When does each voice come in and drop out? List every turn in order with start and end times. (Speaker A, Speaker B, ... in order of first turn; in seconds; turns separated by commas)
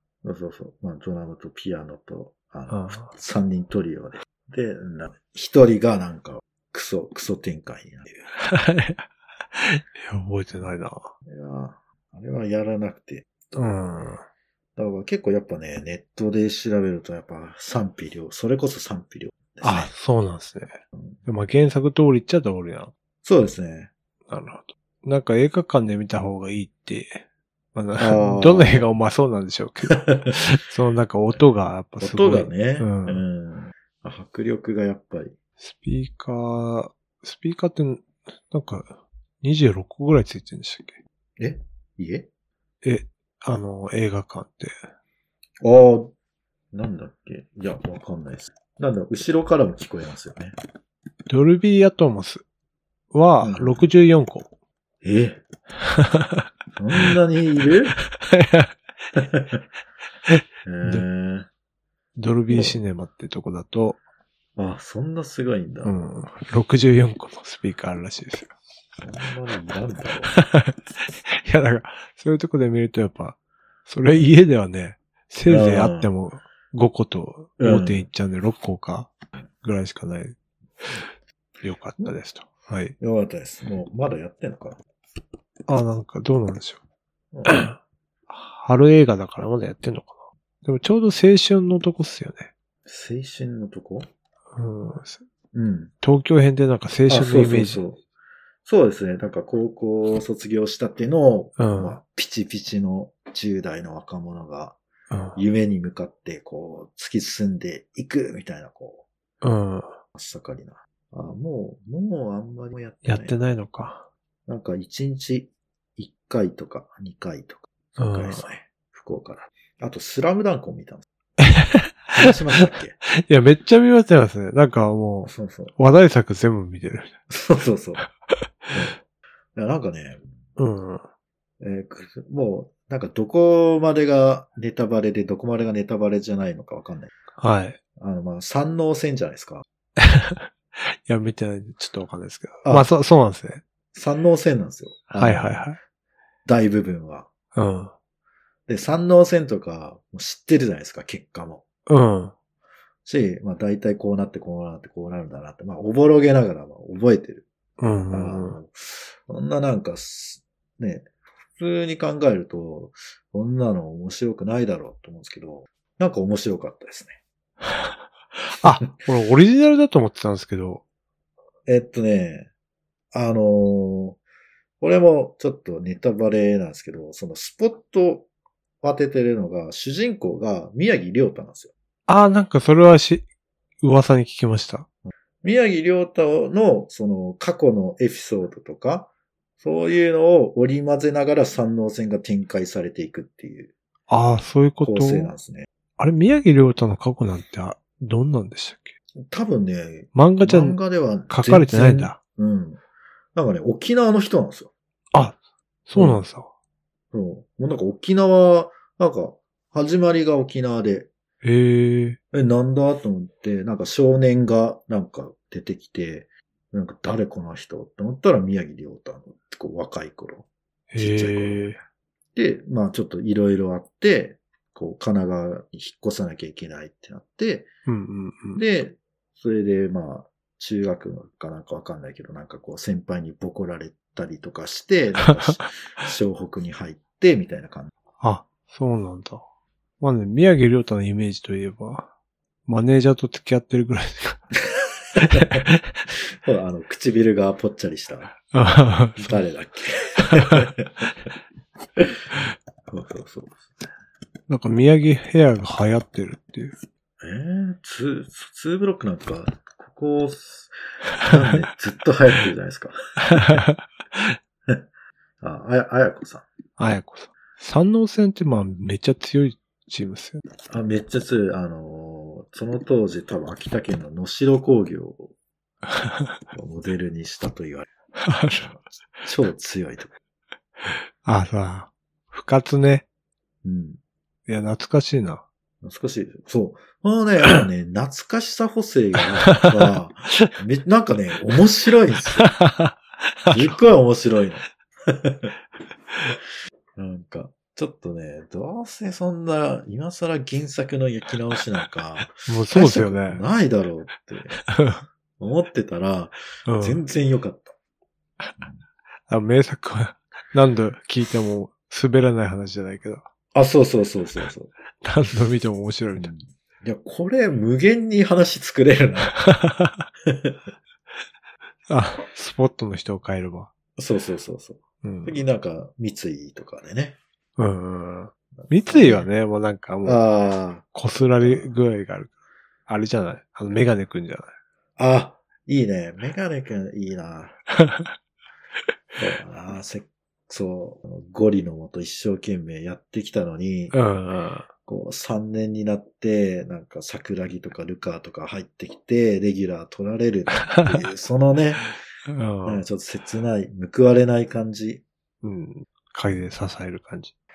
Speaker A: 0.2-8.3, Speaker B: 2.7-3.1, Speaker B: 8.4-11.1, Speaker A: 11.3-13.7, Speaker B: 13.6-14.2, Speaker A: 14.8-19.9, Speaker B: 19.6-22.9, Speaker A: 23.2-23.9, Speaker B: 24.3-33.2, Speaker A: 28.0-28.9, Speaker A: 32.0-35.4, Speaker B: 35.6-41.0, Speaker A: 41.4-42.3, Speaker B: 42.8-44.8, Speaker A: 45.6-46.1, Speaker A: 46.7-50.5, Speaker B: 51.3-52.4, Speaker B: 53.1-54.5, Speaker A: 53.4-53.9, Speaker A: 55.0-55.4, Speaker B: 55.8-56.4, Speaker A: 56.8-58.0, Speaker B: 58.1-58.7, Speaker A: 59.1-59.6, Speaker B: 60.3-61.1, Speaker A: 60.6-61.5, Speaker B: 62.1-64.0, Speaker A: 62.5-62.8, Speaker A: 64.6-65.9, Speaker B: 65.8-68.5, Speaker A: 69.0-70.3, Speaker B: 70.3-79.1, Speaker A: 75.5-76.1, Speaker A: 77.6-78.1, Speaker B: 79.6-81.0, Speaker B: 81.6-83.0, Speaker A: 83.0-84.8, Speaker B: 85.7-86.8, Speaker A: 87.3-87.7, Speaker B: 87.4-87.8, Speaker B: 88.3-92.5, Speaker A: 92.9-94.1, Speaker B: 94.6-95.2, Speaker A: 95.5-95.9, Speaker B: 96.0-97.8, Speaker A: 97.1-98.0, Speaker A: 98.6-104.8, Speaker B: 101.6-102.0, Speaker B: 105.1-105.4, Speaker A: 105.4-109.0, Speaker B: 109.4-110.0, Speaker A: 110.1-113.4, Speaker B: 113.0-114.1, Speaker A: 114.5-121.0, Speaker B: 118.0-118.5, Speaker B: 121.4-127.2, Speaker A: 122.1-123.0, Speaker A: 125.2-125.7, Speaker A: 127.3-128.0, Speaker A: 129.6-130.2, Speaker B: 130.6-131.0, Speaker A: 131.6-137.1, Speaker B: 137.4-137.8, Speaker A: 138.0-139.6, Speaker B: 140.0-143.6, Speaker A: 143.9-145.7, Speaker B: 145.1-145.8, Speaker A: 146.4-147.3, Speaker B: 147.6-147.9, Speaker A: 148.7-151.6, Speaker B: 151.9-152.3, Speaker A: 153.1-157.4, Speaker B: 157.8-158.6, Speaker A: 158.1-167.2, Speaker B: 168.5-170.8, Speaker A: 171.7-172.5, Speaker A: 173.1-174.2, Speaker A: 174.8-178.3, Speaker A: 178.8-181.7, Speaker B: 182.1-183.3, Speaker B: 183.8-184.9, Speaker A: 185.4-193.7, Speaker B: 194.1-195.3, Speaker A: 194.8-195.7, Speaker B: 196.0-198.9, Speaker A: 199.2-202.8, Speaker B: 200.1-202.2, Speaker A: 203.3-204.7, Speaker B: 205.1-206.5, Speaker A: 205.9-206.2, Speaker A: 207.1-211.1, Speaker B: 211.4-212.2, Speaker A: 212.3-220.5, Speaker B: 220.9-221.8, Speaker A: 221.0-221.8, Speaker A: 222.3-227.7, Speaker B: 227.9-228.6, Speaker A: 228.6-237.9, Speaker B: 238.2-239.4, Speaker B: 240.0-242.1, Speaker B: 242.7-244.5, Speaker A: 244.7-245.6, Speaker B: 245.2-245.8, Speaker A: 246.3-248.4, Speaker B: 248.5-249.4, Speaker A: 249.2-251.3, Speaker B: 250.2-250.7, Speaker A: 252.9-253.9, Speaker B: 254.5-256.8, Speaker A: 257.2-263.6, Speaker B: 263.3-264.4, Speaker A: 265.4-266.4, Speaker B: 266.8-270.4, Speaker A: 270.7-275.3, Speaker B: 275.9-276.3, Speaker A: 276.5-277.9, Speaker B: 278.2-278.7, Speaker A: 278.5-280.1, Speaker B: 281.2-283.1, Speaker A: 283.6-284.0, Speaker B: 284.5-285.4, Speaker A: 285.8-292.6, Speaker B: 292.4-293.8, Speaker A: 293.5-295.5, Speaker A: 296.9-304.6, Speaker B: 302.4-303.4, Speaker B: 304.7-305.0, Speaker A: 305.4-307.7, Speaker B: 306.6-307.0, Speaker B: 309.3-313.3, Speaker A: 313.5-314.7, Speaker B: 315.0-316.3, Speaker A: 316.2-319.3, Speaker B: 319.3-320.1, Speaker A: 320.3-320.6, Speaker B: 321.9-323.7, Speaker A: 324.0-327.2, Speaker B: 325.0-325.4, Speaker B: 327.6-330.2, Speaker A: 328.6-329.3, Speaker A: 330.0-330.9, Speaker B: 330.9-332.3, Speaker A: 331.4-331.7, Speaker B: 332.9-334.5, Speaker A: 335.0-337.6, Speaker B: 337.8-338.1, Speaker A: 339.2-343.9, Speaker B: 343.9-344.7, Speaker A: 344.9-351.9, Speaker B: 350.7-351.0, Speaker B: 352.3-352.8, Speaker A: 352.6-355.0, Speaker B: 355.4-357.3